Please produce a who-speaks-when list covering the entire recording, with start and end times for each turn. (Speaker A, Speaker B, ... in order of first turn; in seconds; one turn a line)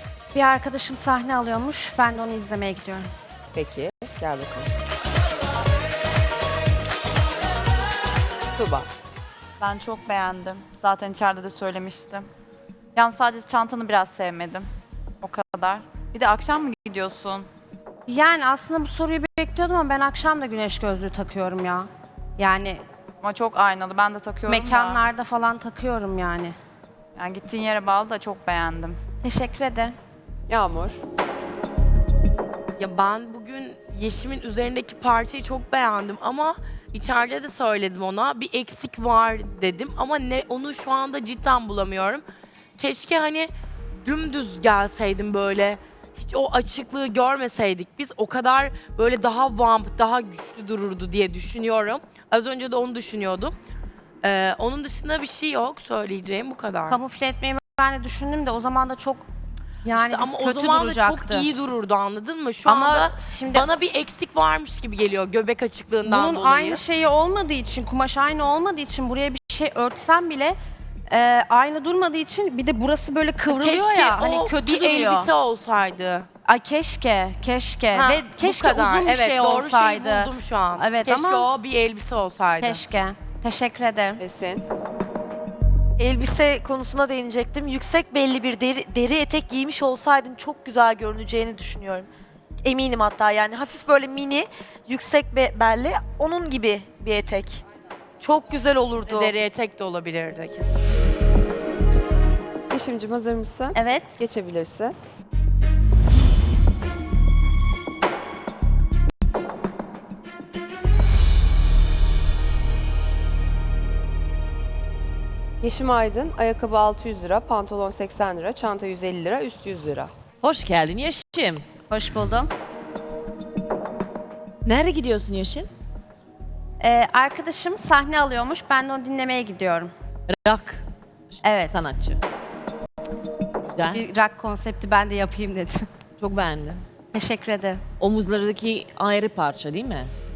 Speaker A: 0.3-3.1
Speaker B: 3.5-4.7
Speaker B: 8.5-8.9
Speaker C: 9.6-12.3
Speaker C: 12.9-14.7
Speaker C: 15.2-17.5
Speaker A: 18.1-22.8
Speaker C: 23.2-25.0
Speaker A: 24.5-26.6
Speaker C: 27.2-29.0
Speaker A: 29.2-29.9
Speaker B: 30.5-31.0
Speaker D: 32.8-42.2
Speaker D: 42.8-53.5
Speaker D: 54.2-57.0
Speaker A: 56.9-59.2
Speaker A: 59.8-61.5
Speaker D: 59.9-66.8
Speaker A: 62.6-63.7
Speaker A: 66.1-70.6
Speaker A: 71.1-75.3
Speaker D: 73.5-76.3
Speaker A: 76.4-81.5
Speaker D: 77.9-82.8
Speaker A: 82.6-84.2
Speaker B: 84.2-84.7
Speaker E: 86.0-92.1
Speaker E: 92.6-97.6
Speaker E: 98.2-99.3
Speaker D: 98.2-100.8
Speaker B: 102.7-105.0
Speaker A: 103.7-104.1
Speaker B: 115.6-120.1
Speaker F: 120.4-121.6
Speaker A: 121.9-122.5
Speaker F: 124.6-125.7
Speaker A: 126.8-129.9
Speaker F: 130.3-130.8
Speaker F: 131.3-132.2
Speaker A: 131.4-131.8
Speaker F: 133.6-134.0
Speaker A: 133.9-135.8
Speaker F: 136.2-136.8
Speaker A: 137.1-137.8
Speaker F: 138.0-140.1